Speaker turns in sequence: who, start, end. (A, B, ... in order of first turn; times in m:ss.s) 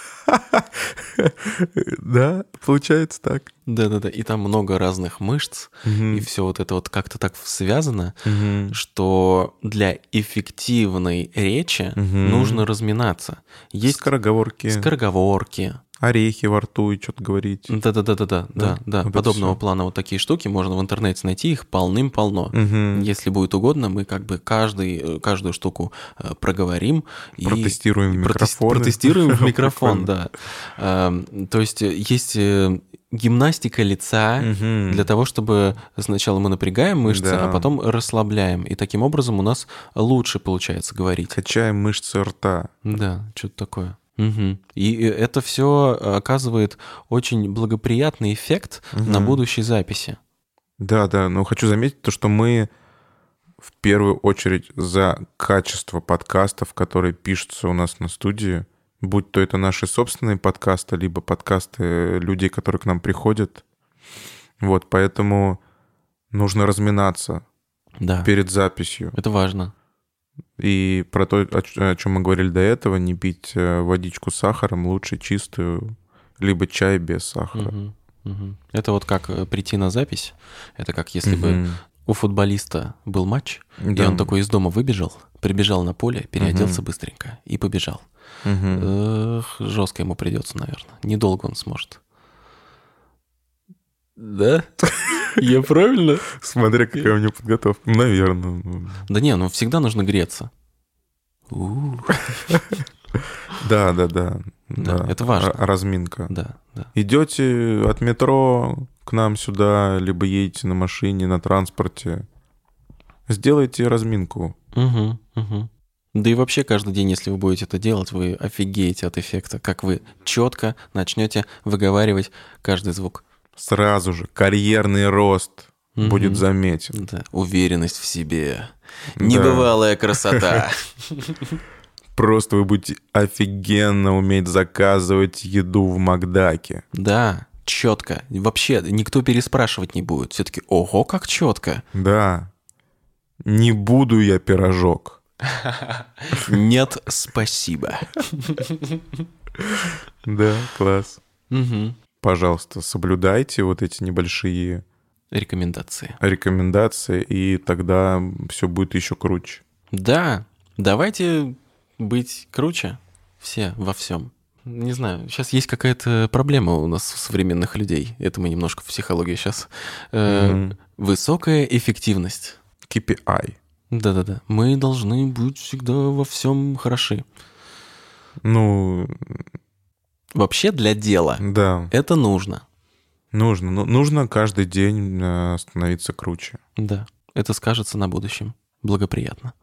0:00.3-0:03.5 A
0:03.7-0:14.1 B
0:05.8-0:06.3 A
0:08.2-0:08.8 A
0:12.0-0:12.6 A
0:13.8-0:14.9 A
0:14.7-0:15.8 B
0:16.0-0:17.7 A
0:17.7-0:41.4 B
0:18.6-0:19.6 A
0:22.5-0:23.1 A
0:27.4-0:30.1 A
0:34.4-0:35.1 A
0:37.0-0:37.7 A
0:41.3-0:42.7 A
0:42.8-0:50.2 B
0:48.9-0:49.4 A
0:50.8-0:52.7 A
0:53.6-1:03.6 A
1:04.6-1:05.6 A
1:06.3-1:07.4 A
1:08.0-1:08.3 B
1:08.2-1:09.2 A
1:09.1-1:09.7 B
1:10.6-1:17.7 A
1:17.5-1:28.0 B
1:21.2-1:21.8 A
1:23.8-1:24.4 A
1:26.4-1:26.8 A
1:28.4-1:28.9 A
1:28.7-1:32.0 B
1:34.2-1:36.3 B
1:35.0-1:35.3 A
1:36.3-1:39.0 A
1:39.1-1:40.5 B
1:41.5-1:42.6 B
1:42.5-1:42.8 A
1:43.5-1:46.3 A
1:44.8-1:45.6 B
1:46.3-1:46.9 B
1:47.0-1:52.2 A
1:53.3-1:54.6 A
1:54.7-2:03.2 B
2:03.6-2:07.0 A
2:06.0-2:11.6 B
2:09.2-2:10.6 A
2:12.2-2:16.8 A
2:16.9-2:21.8 B
2:21.9-2:22.5 A
2:23.4-2:25.2 A
2:25.5-2:29.0 B
2:30.2-2:31.2 A
2:31.5-2:32.0 B
2:32.2-2:34.8 A
2:35.3-2:36.2 B
2:36.2-2:39.6 A
2:39.9-2:52.6 B
2:50.3-2:50.8 A
2:52.9-2:53.6 A
2:53.9-2:57.2 B
2:58.4-2:59.5 A
3:00.3-3:02.6 B
3:01.4-3:01.9 A
3:03.3-3:06.6 A
3:06.8-3:09.5 B